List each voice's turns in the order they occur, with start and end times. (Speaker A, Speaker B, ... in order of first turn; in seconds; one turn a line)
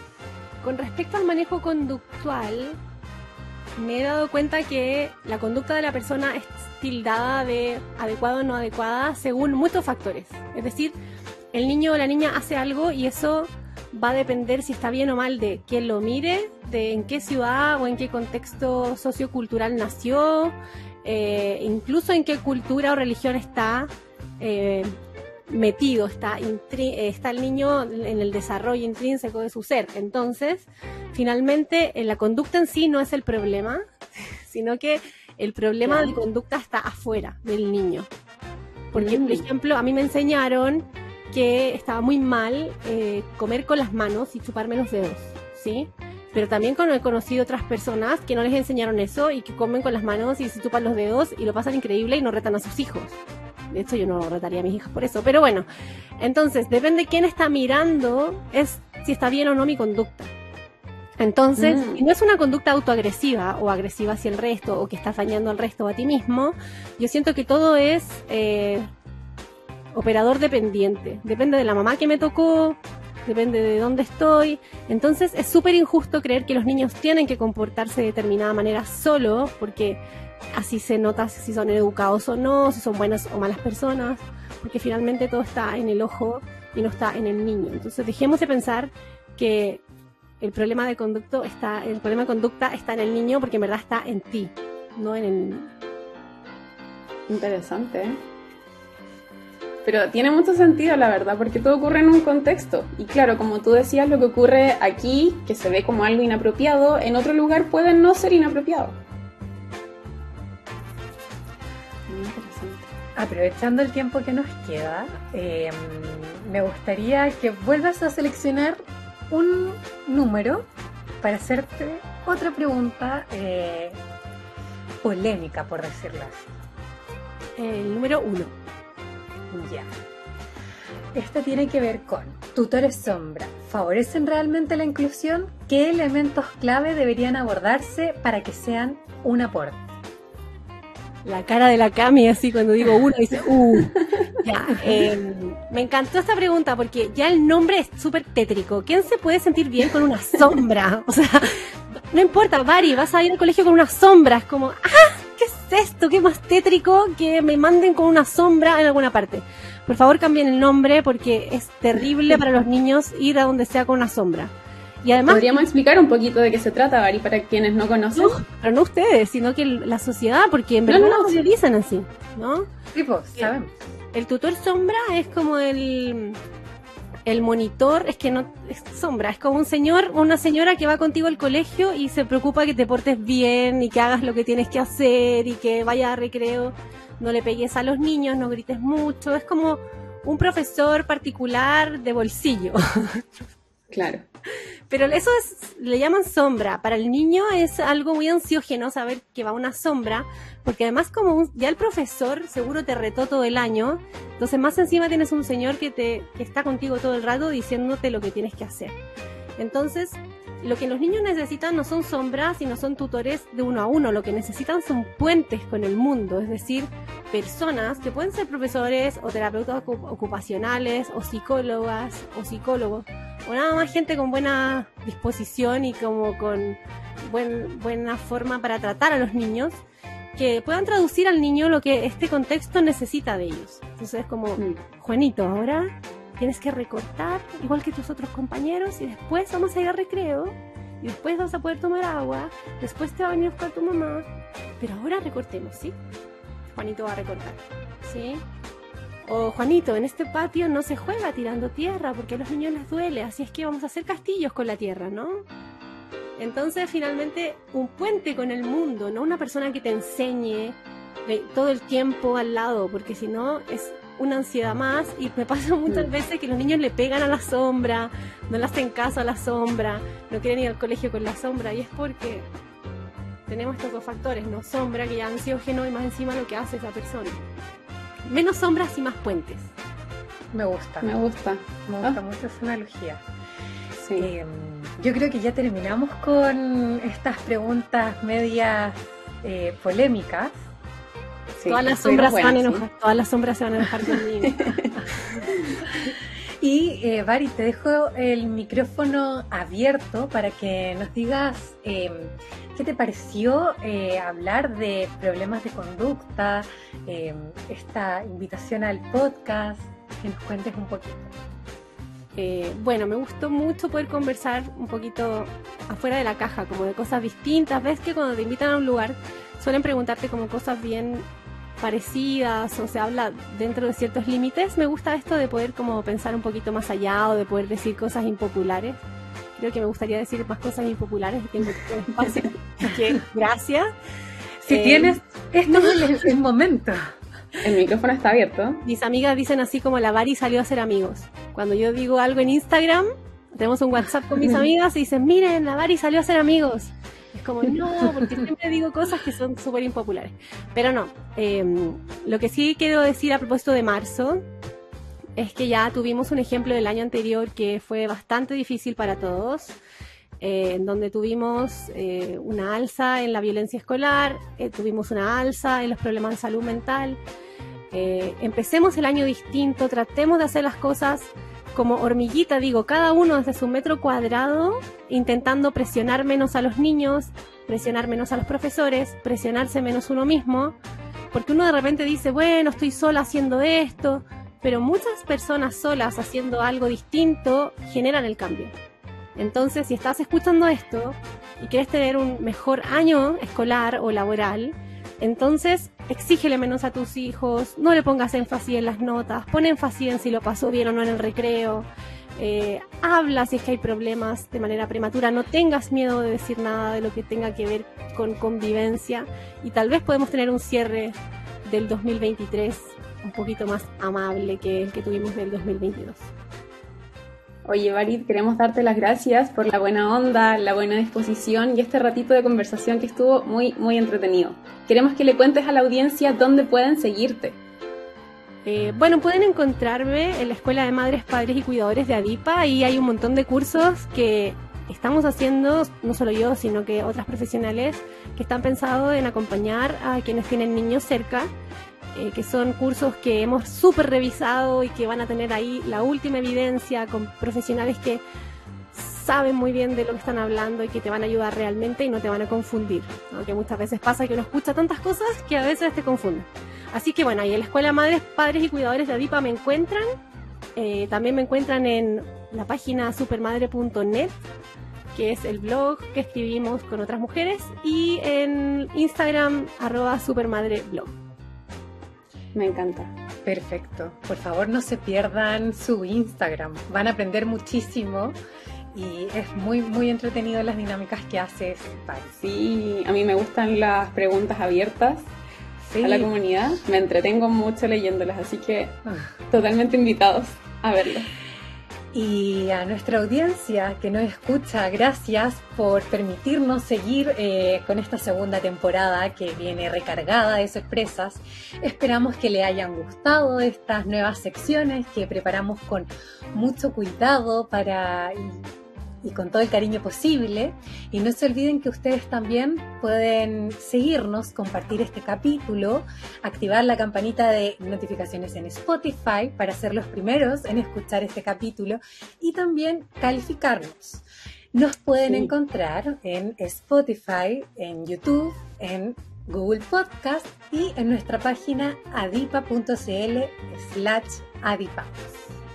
Speaker A: 0.6-2.8
Speaker A: 3.8-11.0
Speaker A: 11.5-25.0
Speaker A: 25.5-38.1
Speaker B: 35.8-36.2
Speaker A: 38.9-53.2
Speaker B: 38.9-39.5
Speaker A: 53.7-55.7
Speaker A: 56.2-60.3
Speaker A: 61.2-68.9
Speaker B: 61.6-62.0
Speaker A: 69.9-80.0
Speaker A: 80.5-89.8
Speaker A: 90.4-95.7
Speaker B: 97.3-98.2
Speaker B: 99.8-109.0
Speaker B: 112.1-112.9
Speaker C: 113.2-120.7
Speaker C: 121.2-124.0
Speaker C: 125.0-126.5
Speaker A: 127.6-128.5
Speaker C: 129.5-129.9
Speaker C: 131.1-139.9
Speaker A: 141.2-164.5
Speaker A: 165.0-165.6
Speaker B: 165.3-168.4
Speaker A: 168.2-172.7
Speaker B: 170.9-171.4
Speaker C: 172.9-173.7
Speaker A: 174.1-176.4
Speaker A: 177.3-193.3
Speaker B: 193.9-194.2
Speaker A: 194.9-208.9
Speaker A: 209.6-229.8
Speaker A: 230.4-244.3
Speaker A: 244.8-246.0
Speaker A: 246.7-248.4
Speaker A: 249.3-255.4
Speaker A: 256.4-272.5
Speaker A: 273.5-277.4
Speaker A: 278.3-279.7
Speaker C: 280.5-281.1
Speaker B: 281.0-282.2
Speaker C: 281.9-283.2
Speaker B: 284.0-284.3
Speaker C: 284.2-290.6
Speaker B: 291.6-292.9
Speaker A: 291.7-294.6
Speaker B: 294.5-295.0
Speaker B: 295.5-295.8
Speaker C: 296.6-311.3
Speaker A: 312.4-321.3
Speaker A: 321.8-329.0
Speaker A: 329.6-333.9
Speaker C: 334.6-337.1
Speaker A: 334.7-335.2
Speaker B: 337.6-338.8
Speaker A: 338.8-354.4
Speaker A: 355.4-359.8
Speaker A: 360.4-367.2
Speaker A: 367.9-380.8
Speaker A: 381.3-388.8
Speaker A: 389.4-401.9
Speaker A: 402.4-416.3
Speaker B: 417.6-427.6
Speaker A: 428.6-441.5
Speaker A: 442.1-448.2
Speaker A: 448.9-460.2
Speaker A: 460.8-464.4
Speaker A: 465.1-471.1
Speaker B: 472.6-473.1
Speaker C: 473.4-478.4
Speaker C: 478.9-482.4
Speaker B: 482.4-485.3
Speaker C: 485.8-486.3
Speaker B: 486.0-491.3
Speaker C: 492.1-508.7
Speaker C: 509.2-535.4